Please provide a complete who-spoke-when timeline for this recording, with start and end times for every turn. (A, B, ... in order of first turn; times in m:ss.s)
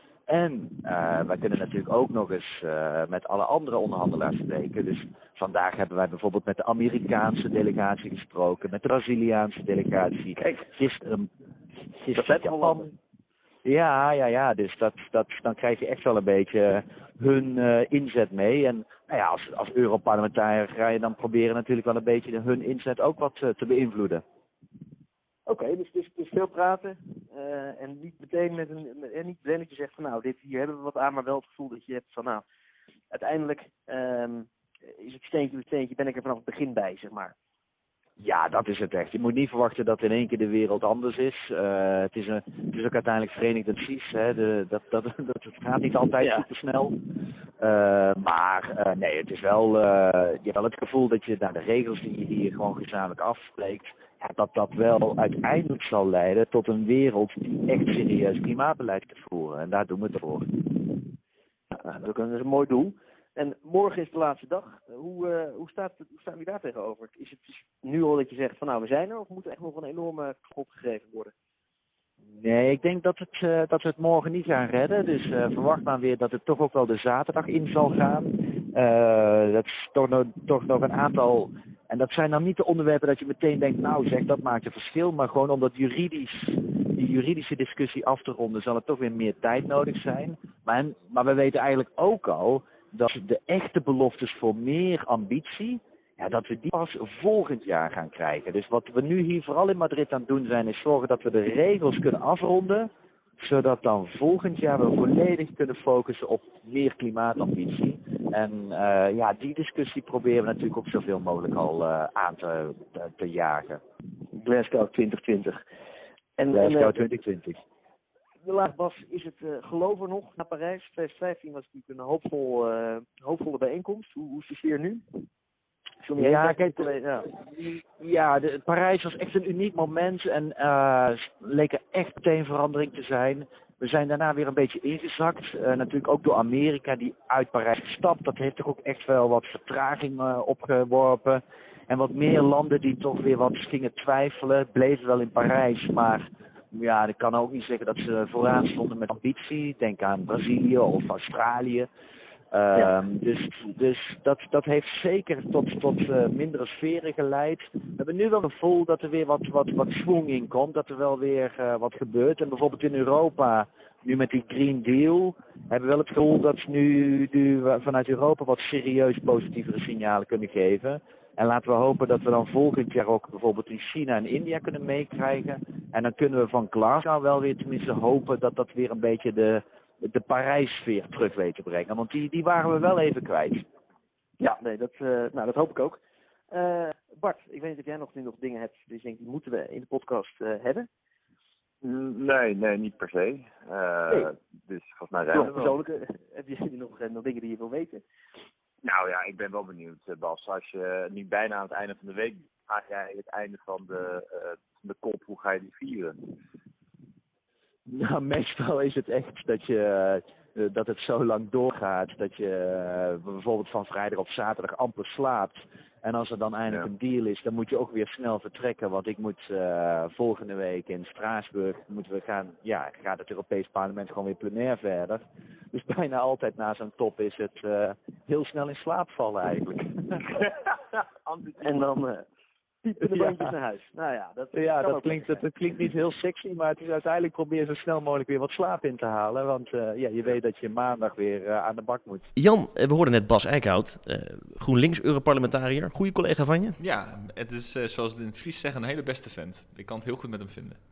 0:00.3-0:11.3 A
0:12.1-0:12.9 A
0:12.2-0:12.8 B
0:13.6-0:24.2 A
0:25.5-0:32.4 B
0:33.1-0:37.3 B
0:38.2-0:47.0 A
0:47.6-1:00.6 A
1:01.7-1:11.3 B
1:12.4-1:42.9 A
1:43.4-1:53.8 A
1:54.3-1:55.6 B
1:56.4-1:57.0 B
1:56.5-1:57.6 A
1:58.4-2:05.0 B
2:06.0-2:07.3 B
2:06.2-2:31.9 A
2:32.5-3:03.6 A
3:04.4-3:06.0 B
3:06.5-3:10.9 B
3:11.8-3:15.8 C
3:15.3-3:18.0 B
3:18.8-3:26.2 C
3:27.9-3:50.2 A
3:51.3-3:51.8 C
3:51.6-3:52.3 B
3:52.8-3:55.4 B
3:54.6-4:02.3 A
4:02.4-4:06.8 D
4:06.8-4:10.8 E